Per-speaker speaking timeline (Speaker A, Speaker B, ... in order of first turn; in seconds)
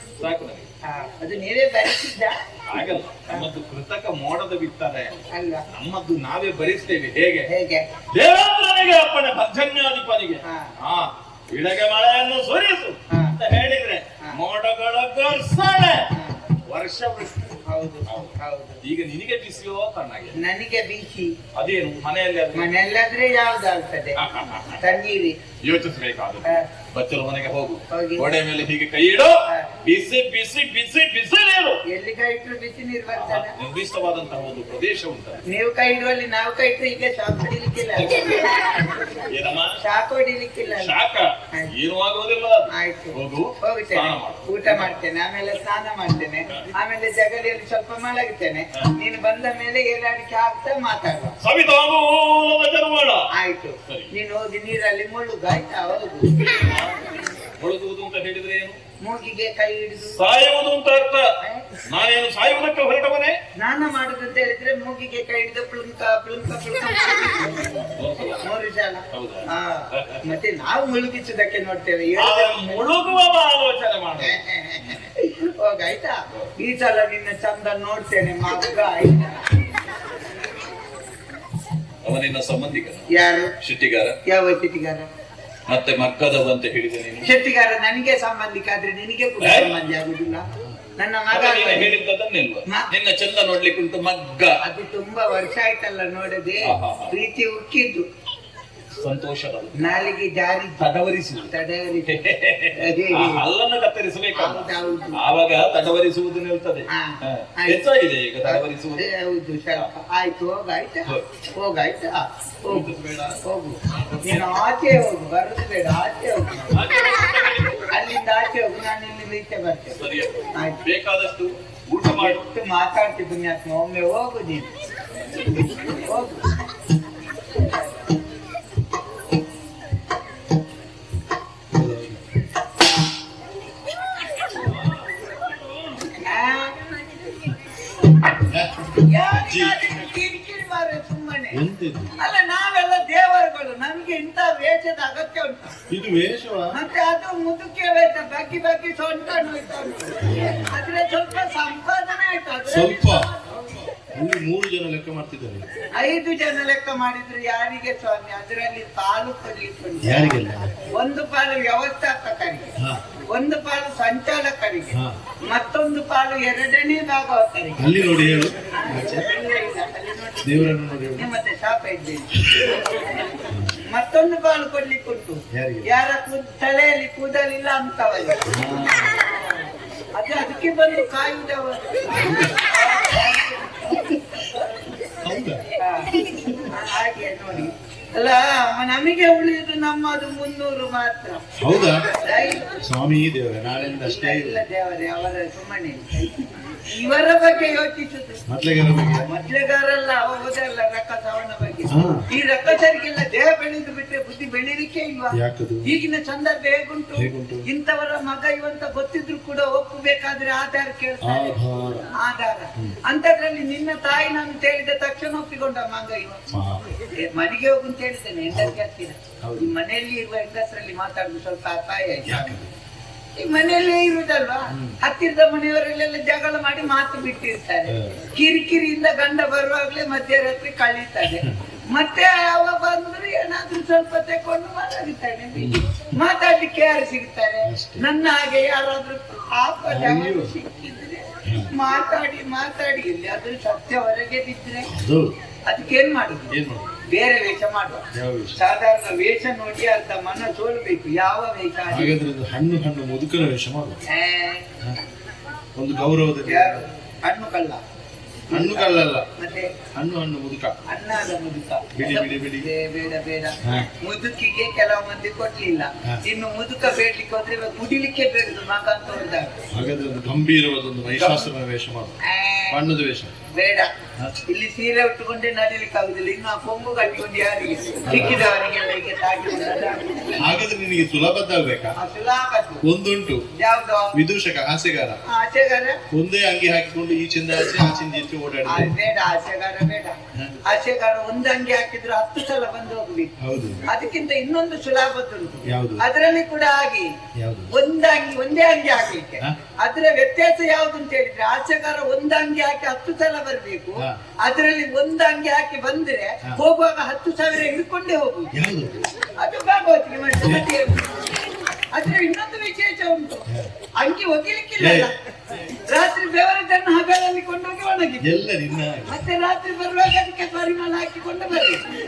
Speaker A: 0.2-0.7, 2.7-7.5, 8.1-16.1, 16.7-17.5, 18.1-20.4, 21.6-22.7, 24.2-25.0, 25.6-31.8, 33.2-35.4, 38.0-38.5, 39.3-39.8, 40.7-45.0, 51.4-53.3, 53.9-54.1, 56.4-58.8, 60.0-61.3, 61.9-63.4, 67.9-68.5, 69.1-70.2, 72.2-75.1, 82.0-84.2, 85.7-87.3, 89.4-89.7, 91.3-94.6, 96.6-97.1, 99.0-100.0, 100.8-101.5, 102.0-109.1, 112.7-114.6, 116.7-117.9, 119.9-122.4, 134.4-136.1
Speaker B: 0.8-2.4, 5.3-5.7, 7.5-7.9, 10.4-10.7, 13.1-13.4, 16.1-16.4, 17.7-18.8, 20.4-21.4, 22.5-24.2, 24.8-25.4, 27.9-28.3, 31.9-33.5, 35.5-38.9, 39.8-40.9, 42.7-51.4, 53.3-56.5, 59.0-60.2, 61.4-61.7, 63.6-67.9, 68.4-72.9, 74.2-79.6, 83.1-83.5, 84.3-85.1, 87.2-92.0, 94.6-98.1, 99.8-100.8, 101.5-102.2, 102.8-103.4, 104.3-105.2, 106.9-107.8, 108.4-112.9, 113.4-116.9, 117.9-120.0, 122.0-124.7, 126.0-126.4, 136.2-136.9, 139.0-141.6, 142.2-145.8, 146.7-153.8, 155.9-160.4, 160.9-162.8, 163.3-168.2, 168.8-172.8, 173.9-178.5, 180.2-183.9, 185.8-186.1, 186.7-191.4, 192.2-192.7, 194.1-198.4, 199.2-211.6, 212.2-216.4, 217.2-222.5, 223.3-244.9, 245.7-246.5, 247.1-248.1, 248.6-252.1, 254.1-254.7, 256.5-257.8, 258.5-259.7, 260.9-269.6, 271.2-271.5, 272.2-272.8, 273.5-273.9, 274.5-280.4, 282.0-282.8, 283.6-284.2, 285.3-286.0, 288.7-293.3, 293.9-297.1, 297.7-308.5, 309.4-311.3, 311.9-313.5, 314.0-315.1, 315.9-318.4, 319.1-321.9
Speaker C: 131.7-132.2, 138.4-138.8, 139.4-139.8, 141.5-142.2, 145.9-146.8, 150.2-150.8, 152.7-153.3, 154.1-155.7, 160.0-160.7, 167.8-169.3, 170.4-171.3, 172.4-172.7, 173.5-173.8, 175.5-175.9, 178.5-179.2, 182.1-182.6, 183.9-184.4, 185.2-186.7, 191.6-192.1, 192.8-194.7, 198.5-199.3, 201.9-202.2, 205.3-205.9, 207.2-207.7, 211.2-212.1, 216.5-216.8, 218.5-218.8, 219.4-219.7, 222.3-222.7, 224.7-225.0, 227.9-228.2, 231.3-231.6, 235.6-236.2, 237.6-238.1, 239.9-240.5, 241.4-241.7, 244.8-245.3, 246.5-247.0, 248.1-248.6, 251.9-254.0, 255.8-256.9, 258.5-259.3, 259.9-260.8, 261.9-262.7, 263.6-263.9, 269.7-272.2, 272.7-273.4, 278.1-278.5, 280.4-282.0, 282.8-283.4, 284.1-285.2, 286.1-288.9, 293.4-293.9, 295.7-296.0, 297.4-297.7, 308.5-309.1, 314.8-315.1, 318.2-319.2